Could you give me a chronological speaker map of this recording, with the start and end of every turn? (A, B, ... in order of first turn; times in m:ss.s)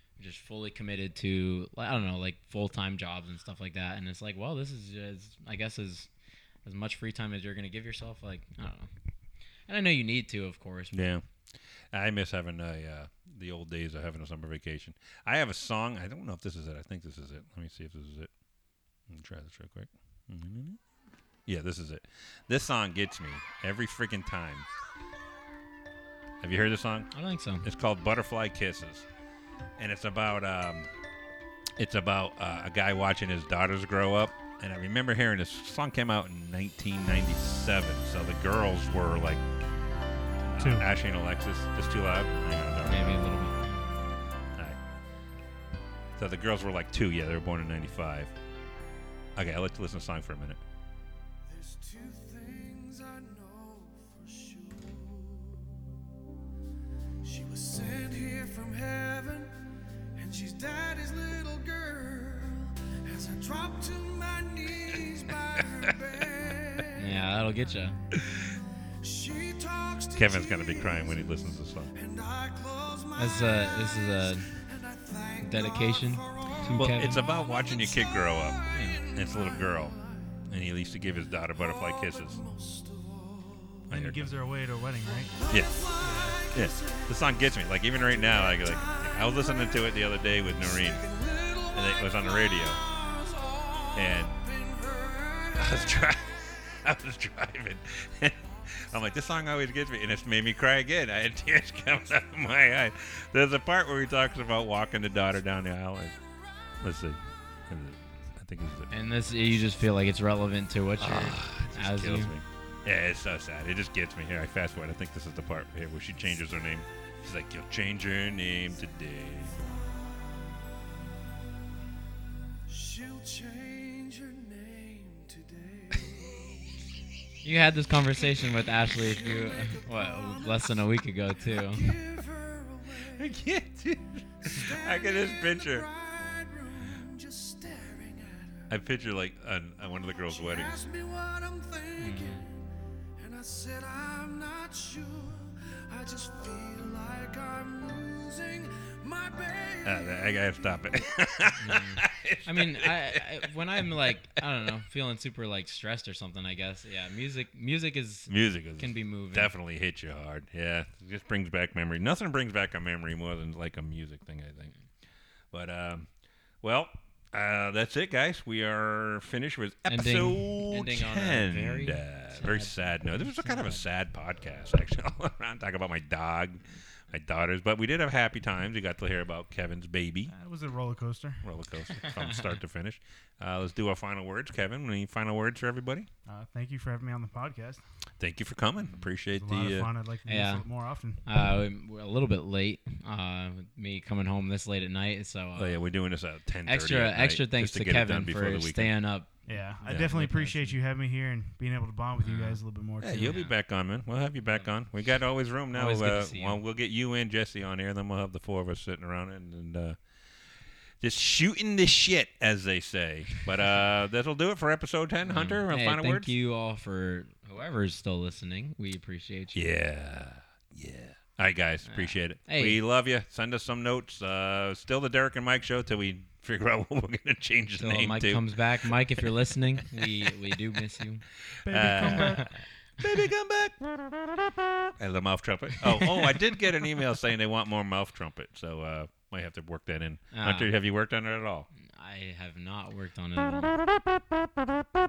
0:00.2-0:06.1 A
0:06.6-0:08.9 A
0:09.7-0:11.0 A
0:10.9-0:11.2 B
0:11.9-0:18.3 B
0:19.1-0:20.8 B
0:21.5-0:24.7 B
0:26.4-0:27.1 B
0:27.1-0:27.7 A
0:27.6-0:29.1 B
0:29.8-0:30.9 B
0:31.8-0:39.4 B
0:40.5-0:43.3 B
0:40.6-0:40.9 C
0:42.8-0:43.8 A
0:46.2-0:48.3 B
0:49.4-0:50.6 B
0:51.5-0:55.9 D
0:57.2-1:07.1 D
1:07.0-1:08.0 A
1:08.3-1:20.5 D
1:10.1-1:11.9 B
1:13.2-1:14.5 A
1:15.4-1:17.2 A
1:16.8-1:22.4 B
1:18.7-1:19.0 A
1:21.5-1:23.9 D
1:23.9-1:24.3 B
1:23.9-1:25.3 C
1:25.0-1:27.3 D
1:25.5-1:25.9 B
1:26.0-1:26.4 C
1:26.5-1:31.0 B
1:28.0-1:36.2 D
1:31.7-1:32.8 B
1:34.0-1:34.3 B
1:35.6-1:46.2 B
1:46.8-1:48.9 B
1:48.9-1:52.3 A
1:51.0-1:59.5 B
2:02.7-2:06.8 D
2:07.4-2:11.9 A
2:08.6-2:13.4 D
2:13.1-2:15.9 B
2:14.4-2:18.7 D
2:18.7-2:20.9 B
2:20.3-2:30.8 D
2:22.0-2:22.4 A
2:29.8-2:34.5 B
2:31.6-2:39.5 A
2:38.3-2:44.7 B
2:45.5-2:46.1 B
2:46.6-3:00.3 B
2:49.9-2:53.8 A
3:00.3-3:01.5 C
3:01.4-3:06.1 B
3:02.0-3:02.4 A
3:06.3-3:07.8 C
3:08.2-3:09.9 B
3:09.3-3:11.2 C
3:10.3-3:10.6 A
3:11.2-3:15.8 A
3:15.6-3:18.9 B
3:16.7-3:19.3 A
3:19.5-3:23.4 C
3:19.8-3:20.8 A
3:19.9-3:20.2 B
3:22.2-3:22.6 A
3:23.0-3:30.0 B
3:23.2-3:23.5 A
3:25.7-3:26.6 A
3:31.0-3:36.3 B
3:35.2-3:39.6 A
3:39.5-3:48.9 B
3:41.9-3:42.8 A
3:47.8-3:51.2 A
3:50.0-3:50.3 B
3:51.6-3:52.4 B
3:51.7-3:52.5 C
3:51.9-3:52.6 A
3:53.0-3:54.4 B
3:54.9-4:01.7 B
4:00.3-4:00.7 A
4:01.8-4:03.7 A